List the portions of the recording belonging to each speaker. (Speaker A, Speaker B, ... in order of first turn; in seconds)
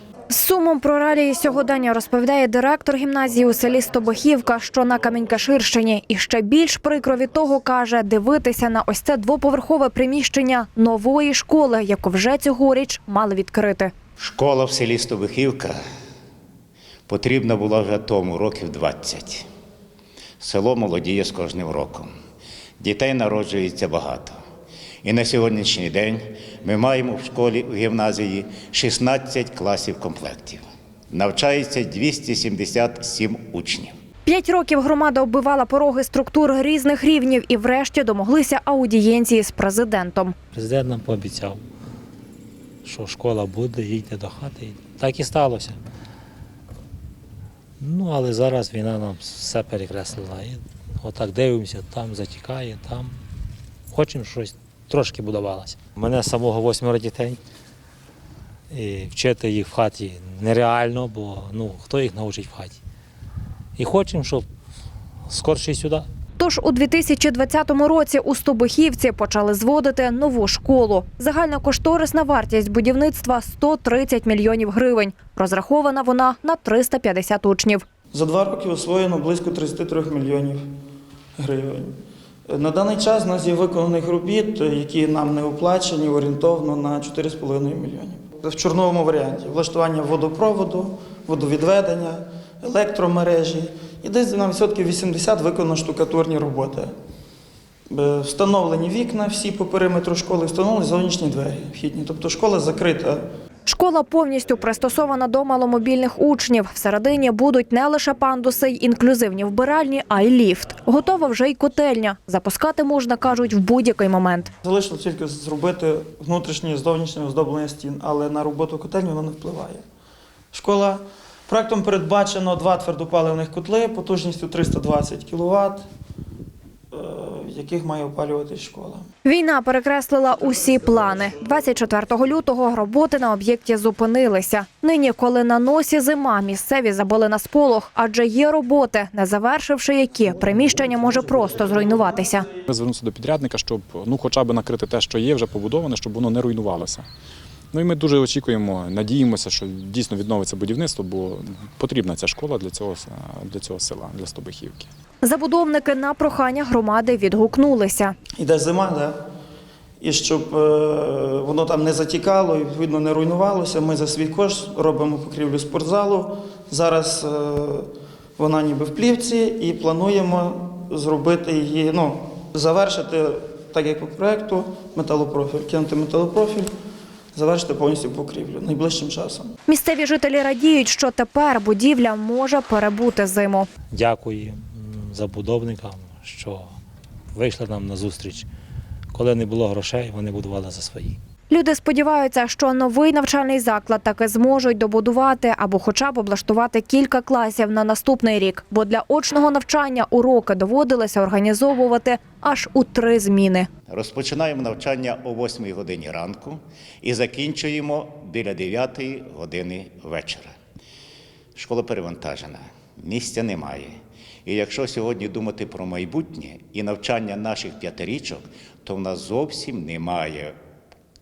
Speaker A: 0.3-13.9, 34.3-40.4, 66.4-77.8, 103.7-114.5, 129.2-142.5, 155.2-158.2, 179.7-183.7, 191.5-203.7
Speaker B: 14.2-15.8, 17.1-19.5, 20.4-22.1, 22.8-24.4, 25.0-33.9, 203.9-210.5, 211.6-220.6
Speaker C: 40.5-41.6, 42.8-45.8, 47.8-53.2, 53.9-57.4, 58.7-62.8, 63.8-64.5, 65.3-66.1, 183.9-186.7, 187.3-188.5, 189.1-191.2
Speaker D: 78.1-80.7, 81.4-82.0, 82.5-96.9, 97.9-103.2, 114.6-119.8, 120.5-125.9, 126.9-129.1, 158.4-159.2, 160.0-176.7, 177.3-179.6
Speaker E: 142.7-147.1, 147.7-154.9